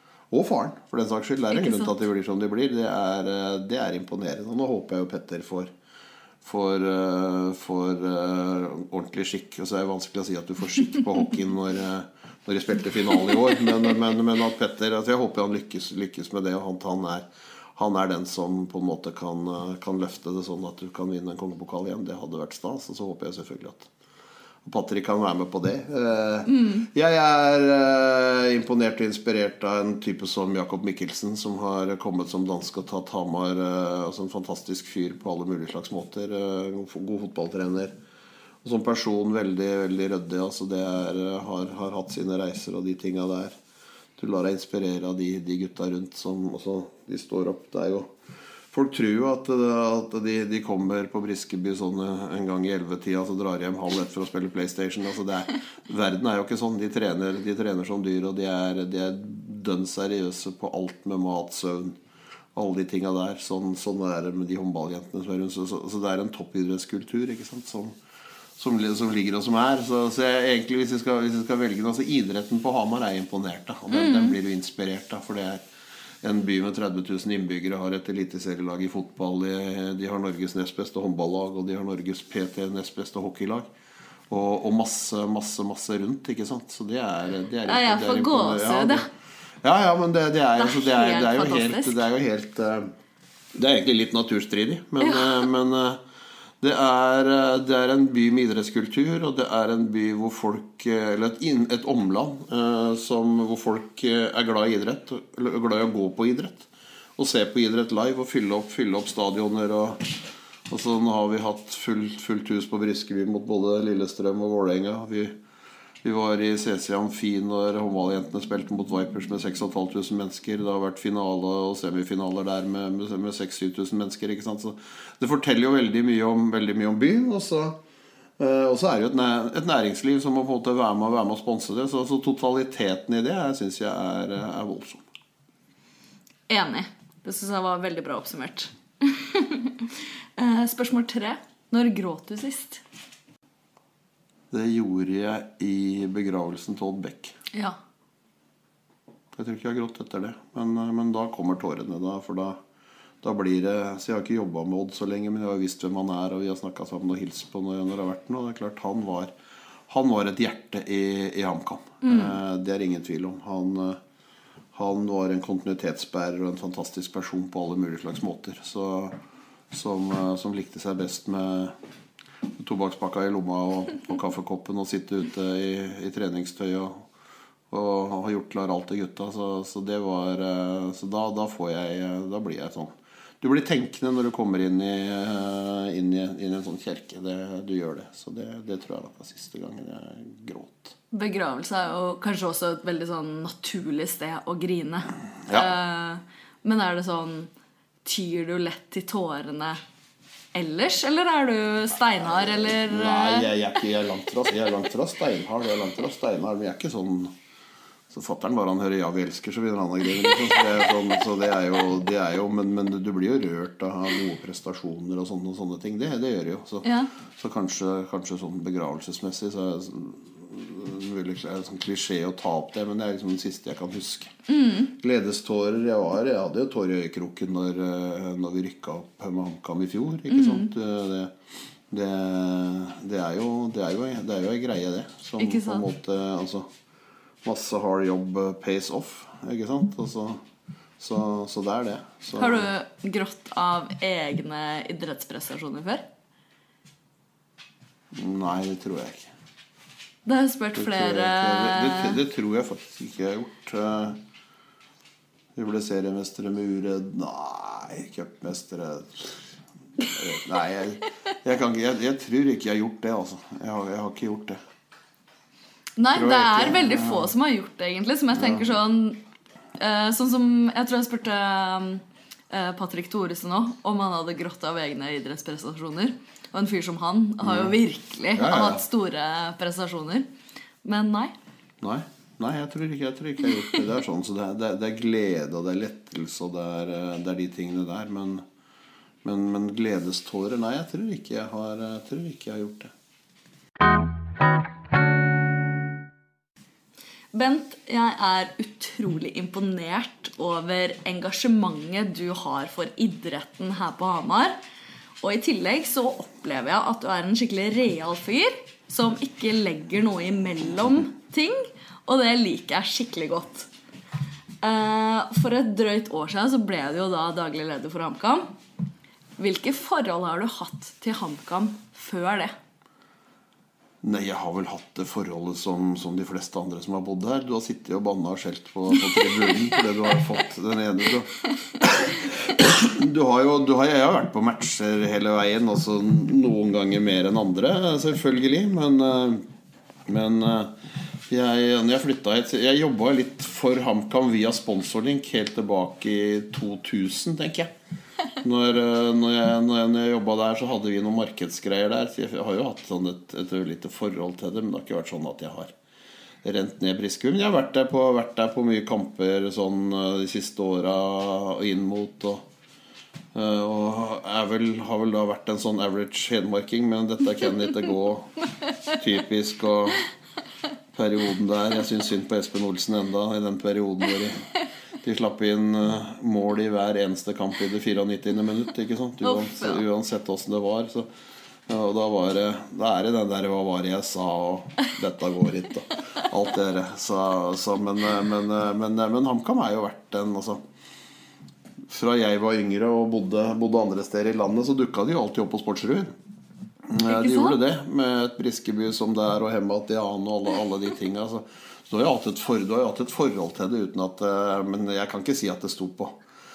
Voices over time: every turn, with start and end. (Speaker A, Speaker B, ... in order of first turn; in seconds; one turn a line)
Speaker A: 0.3-5.7
Speaker B: 1.6-1.9
Speaker A: 6.4-23.9
Speaker A: 24.6-37.9
Speaker B: 26.5-26.9
Speaker A: 38.6-43.5
Speaker A: 44.2-48.1
Speaker A: 48.7-62.0
Speaker A: 62.5-68.0
Speaker A: 68.6-75.6
Speaker B: 73.9-74.3
Speaker A: 76.2-83.7
Speaker A: 84.3-89.0
Speaker B: 87.7-89.0
Speaker A: 89.6-92.9
Speaker B: 90.5-92.0
Speaker A: 93.5-96.0
Speaker B: 95.0-95.4
Speaker A: 96.6-115.3
Speaker A: 116.0-127.8
Speaker A: 128.4-135.0
Speaker B: 136.5-142.8
Speaker A: 144.5-147.3
Speaker A: 149.3-152.6
Speaker A: 153.2-159.3
Speaker A: 159.9-164.0
Speaker B: 162.0-162.3
Speaker A: 164.7-169.2
Speaker A: 169.7-171.7
Speaker A: 172.5-177.0
Speaker A: 177.7-190.9
Speaker B: 191.1-197.5
Speaker B: 198.0-199.8
Speaker B: 200.5-203.5
Speaker A: 202.2-207.3
Speaker A: 208.1-224.3
Speaker B: 216.8-217.1
Speaker B: 224.5-224.9
Speaker A: 224.9-231.3
Speaker B: 230.3-230.7
Speaker A: 231.9-236.7
Speaker B: 235.4-235.8
Speaker A: 237.4-240.4
Speaker A: 241.0-242.7
Speaker B: 242.4-246.0
Speaker A: 248.1-249.3
Speaker B: 250.2-252.2
Speaker A: 250.7-254.2
Speaker A: 255.5-259.4
Speaker A: 260.0-264.6
Speaker B: 266.0-269.2
Speaker A: 266.1-267.3
Speaker A: 268.3-268.7
Speaker B: 269.8-280.3
Speaker A: 277.4-277.8
Speaker A: 278.3-278.8
Speaker B: 280.8-281.3
Speaker A: 281.8-288.4
Speaker A: 289.2-292.9
Speaker B: 297.3-304.6
Speaker B: 305.2-313.7
Speaker B: 314.6-318.4
Speaker B: 319.4-322.5
Speaker A: 324.0-339.4
Speaker A: 340.1-347.7
Speaker A: 348.4-355.7
Speaker A: 356.4-362.4
Speaker A: 363.3-370.1
Speaker A: 370.9-374.5
Speaker A: 375.0-381.1
Speaker B: 379.2-379.8
Speaker A: 381.7-390.6
Speaker A: 391.9-396.1
Speaker A: 396.9-406.2
Speaker B: 397.1-397.6